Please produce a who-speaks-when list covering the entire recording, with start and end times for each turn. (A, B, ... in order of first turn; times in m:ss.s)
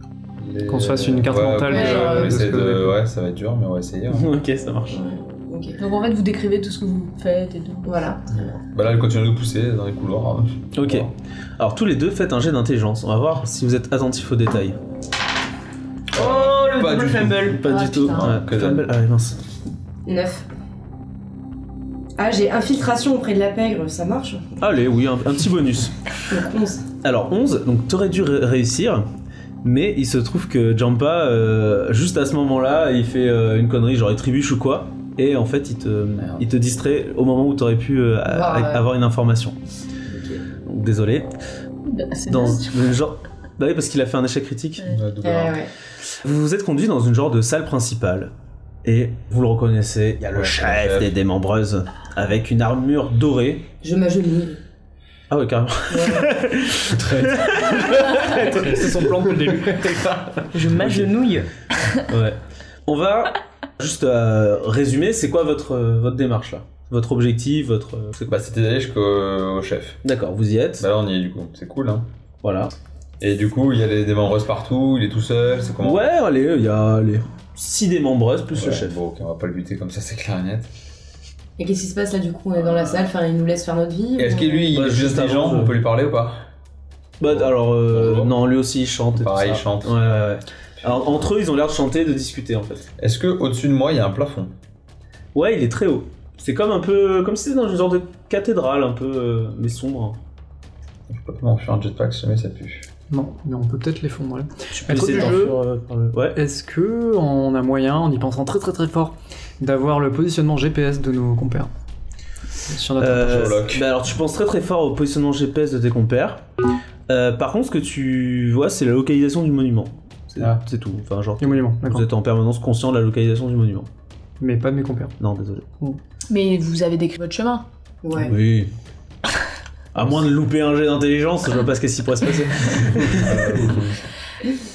0:00.4-0:04.3 A
0:00.7-0:03.0 B
0:01.7-0:02.3 C
0:01.7-0:02.2 D
0:04.1-0:05.0 E
0:04.9-0:05.8 C
0:05.8-0:07.9 D
0:07.8-0:08.2 C
0:08.3-0:11.1 A
0:10.7-0:14.8 E
0:16.1-0:17.6 A
0:16.1-0:17.6 F
0:17.5-0:19.4 E
0:17.6-0:18.3 C
0:18.1-0:18.9 A
0:20.0-0:20.5 C
0:22.2-0:24.4 C
0:24.6-0:25.9 E
0:26.3-0:26.8 C
0:27.0-0:29.0 E
0:29.6-0:39.6 E
0:36.2-0:36.5 A
0:38.2-0:38.8 C
0:40.1-0:40.4 C
0:40.6-0:41.3 E
0:41.8-0:42.7 D
0:42.3-0:44.9 E
0:44.9-0:45.6 A
0:45.2-0:45.7 C
0:46.2-0:48.3 E
0:48.8-0:53.6 E
0:50.3-0:51.1 A
0:53.8-0:54.6 C
0:55.3-0:59.2 E
0:55.9-0:56.3 C
0:58.3-1:00.4 B
1:00.5-1:01.5 F
1:00.7-1:01.1 E
1:02.1-1:08.3 E
1:08.2-1:10.0 A
1:10.0-1:10.8 E
1:10.8-1:12.1 A
1:12.4-1:12.7 E
1:13.2-1:16.1 A
1:15.8-1:19.0 E
1:18.5-1:20.7 A
1:21.6-1:24.7 C
1:22.6-1:23.1 A
1:24.2-1:26.4 A
1:24.7-1:25.8 E
1:27.2-1:32.9 E
1:27.2-1:28.3 A
1:29.1-1:30.1 A
1:30.8-1:31.2 A
1:33.0-1:34.5 A
1:35.3-1:40.2 E
1:41.1-1:42.9 A
1:43.1-1:45.6 B
1:44.7-1:46.4 E
1:46.3-1:51.7 B
1:52.7-1:53.6 B
1:53.0-1:56.4 E
1:53.1-1:53.9 A
1:57.1-2:03.9 E
2:01.4-2:02.1 B
2:04.4-2:05.1 B
2:05.2-2:05.6 E
2:06.3-2:07.6 D
2:08.0-2:08.3 C
2:08.2-2:08.7 E
2:09.9-2:13.7 E
2:13.1-2:14.0 A